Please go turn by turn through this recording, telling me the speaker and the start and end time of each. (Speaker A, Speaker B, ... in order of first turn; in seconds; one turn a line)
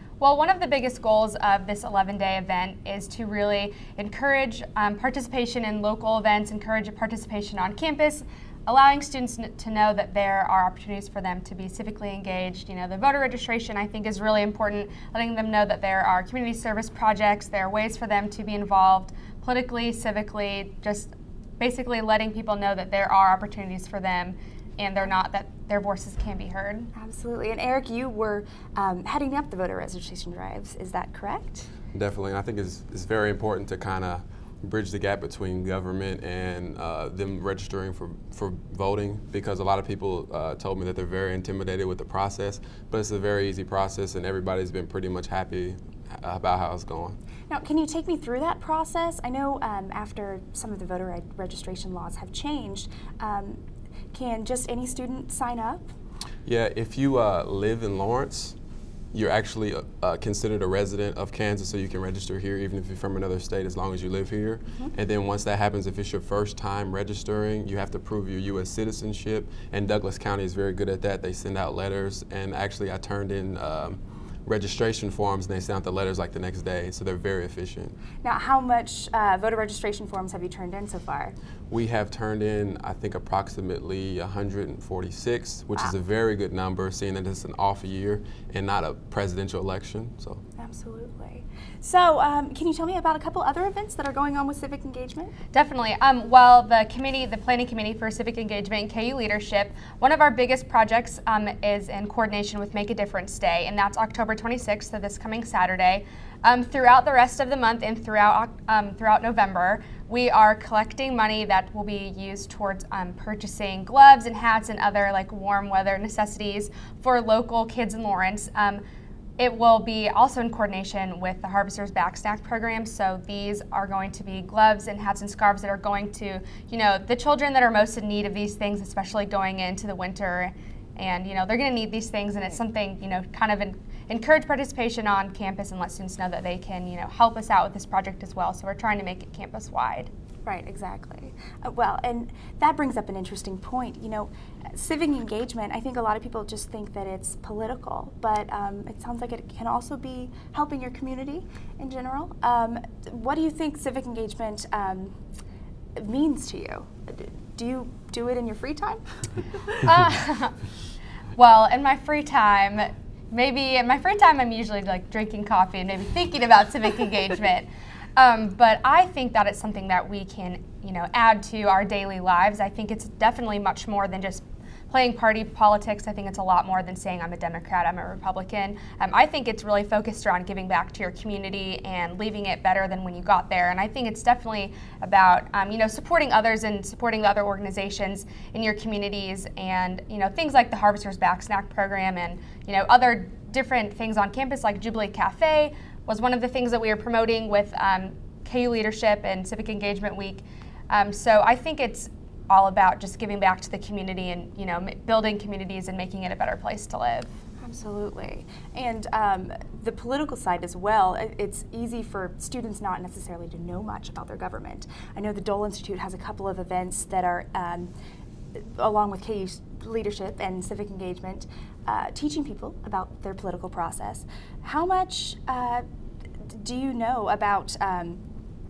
Speaker A: 0.2-26.9
Speaker B: 26.9-31.7
Speaker C: 31.9-47.2
Speaker B: 47.5-55.9
Speaker C: 56.5-58.5
Speaker C: 59.1-77.9
Speaker B: 78.2-81.3
Speaker C: 81.7-90.4
Speaker B: 90.6-95.3
Speaker A: 95.5-118.8
Speaker A: 119.4-140.1
Speaker B: 140.4-155.2
Speaker B: 156.0-159.0
Speaker A: 159.8-160.6
Speaker A: 161.3-207.3
Speaker B: 207.6-217.9
Speaker B: 218.6-225.8
Speaker B: 226.4-228.2